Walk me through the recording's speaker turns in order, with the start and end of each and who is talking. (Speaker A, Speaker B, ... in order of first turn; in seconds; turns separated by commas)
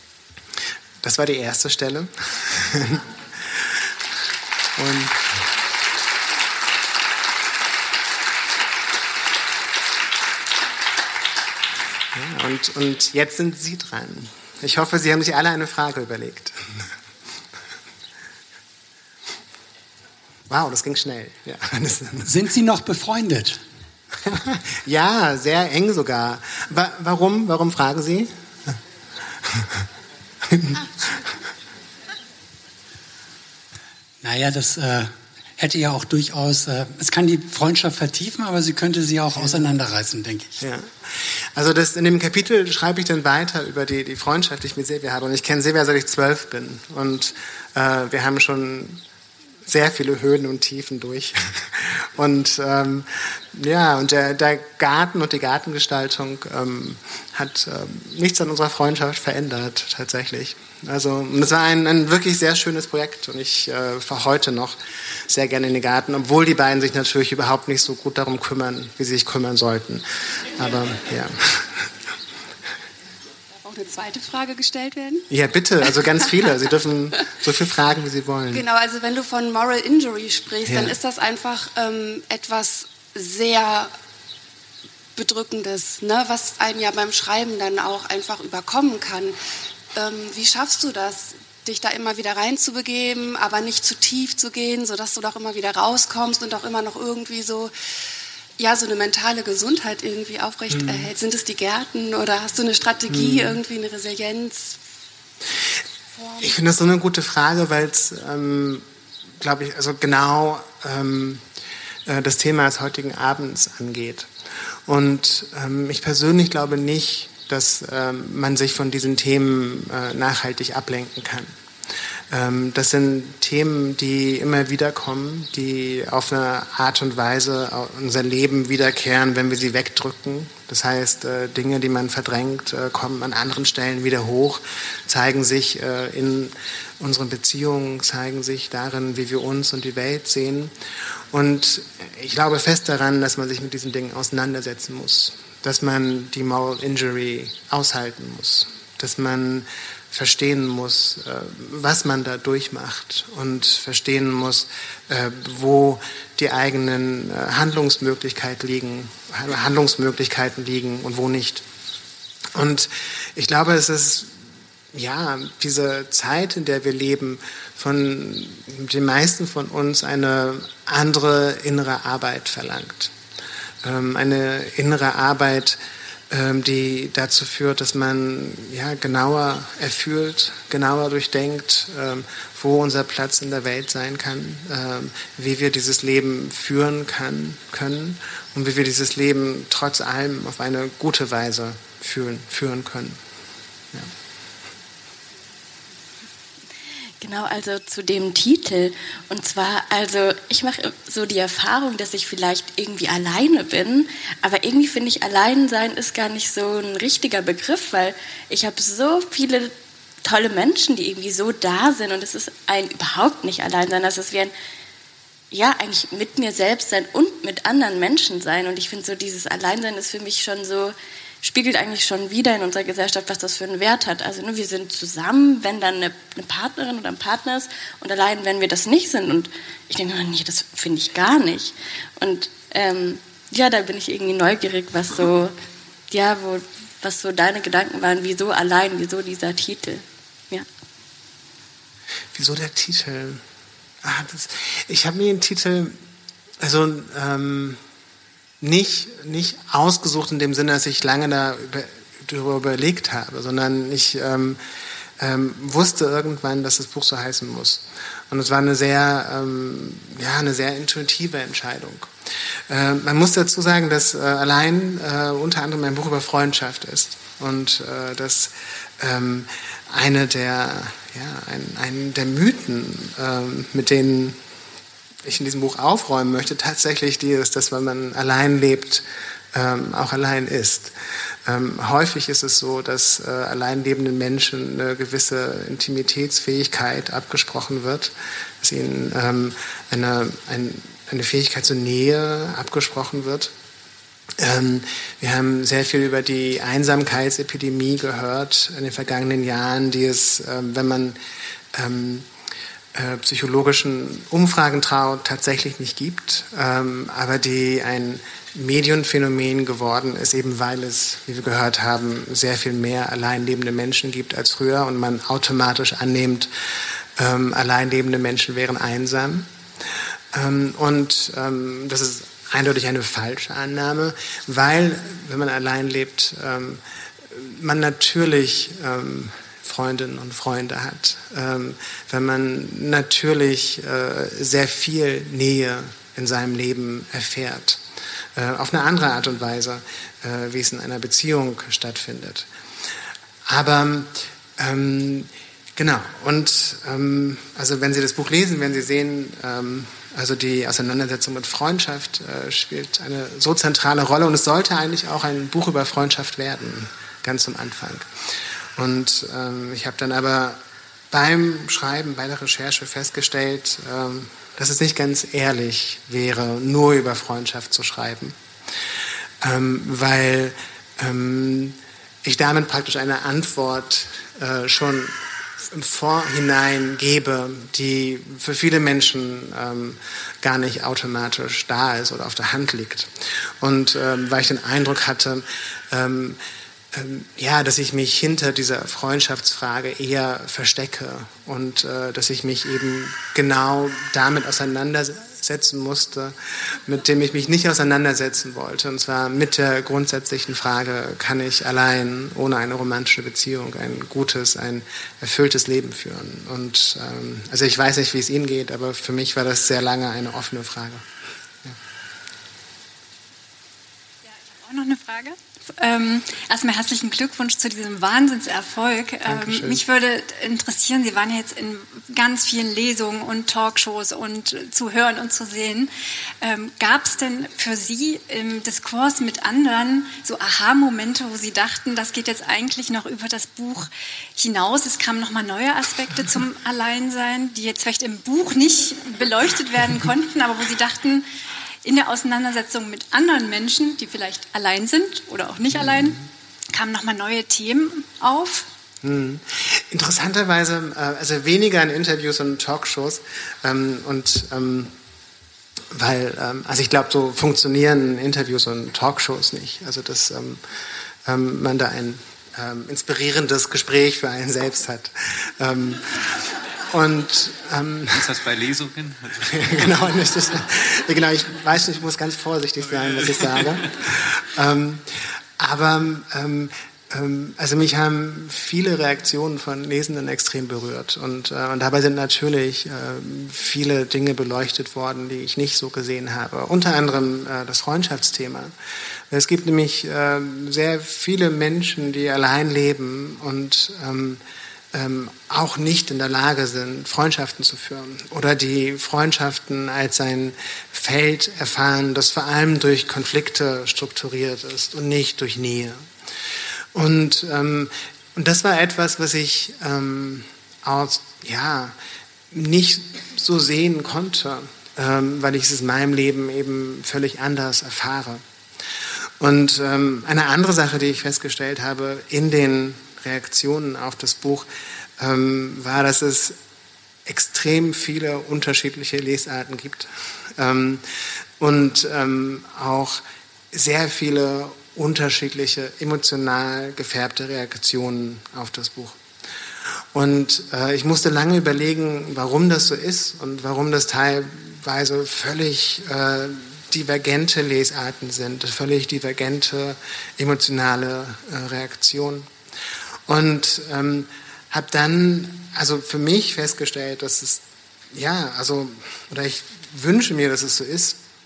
Speaker A: 1.0-3.7, Speaker A: 4.8-5.3, Speaker A: 12.1-16.8, Speaker A: 20.5-22.3, Speaker B: 22.2-23.6, Speaker A: 24.2-28.8, Speaker A: 29.4-29.8, Speaker A: 30.5-31.2, Speaker B: 34.2-40.6, Speaker A: 40.6-49.0, Speaker A: 49.7-71.9, Speaker C: 73.5-75.3, Speaker A: 75.3-78.6, Speaker C: 78.5-83.9, Speaker A: 80.7-81.0, Speaker C: 85.2-89.4, Speaker C: 90.0-97.7, Speaker C: 98.6-104.8, Speaker A: 100.8-101.1, Speaker A: 103.1-103.6, Speaker A: 106.4-108.9, Speaker A: 109.4-111.5, Speaker A: 112.1-114.3, Speaker A: 114.9-121.5, Speaker A: 122.3-140.7, Speaker A: 141.3-161.7, Speaker A: 162.5-164.4, Speaker A: 164.9-173.1, Speaker A: 173.8-175.8, Speaker A: 176.3-193.2, Speaker D: 197.2-214.5, Speaker D: 215.5-235.6, Speaker D: 236.1-240.7, Speaker A: 242.3-243.4, Speaker A: 244.0-246.0, Speaker A: 246.6-247.8, Speaker A: 248.6-254.6, Speaker A: 255.2-262.1, Speaker A: 262.7-274.4, Speaker A: 275.2-293.5, Speaker A: 294.4-301.2, Speaker A: 301.7-302.3, Speaker A: 302.9-316.5, Speaker A: 317.2-319.5, Speaker A: 320.3-337.8, Speaker A: 338.4-342.5, Speaker A: 343.5-358.1, Speaker A: 358.8-368.4, Speaker A: 369.4-386.4, Speaker A: 386.9-411.1, Speaker E: 414.3-441.3, Speaker A: 419.2-419.8, Speaker E: 441.8-448.7, Speaker A: 449.0-454.9, Speaker A: 455.9-460.6, Speaker A: 461.2-468.3, Speaker F: 468.1-470.1, Speaker A: 469.5-488.7, Speaker F: 473.2-473.8, Speaker A: 489.3-494.4, Speaker A: 494.9-506.1, Speaker A: 506.9-512.0, Speaker A: 512.5-518.4, Speaker A: 519.4-526.6, Speaker A: 527.3-531.1, Speaker A: 531.6-539.2, Speaker A: 540.1-552.5, Speaker A: 553.3-561.2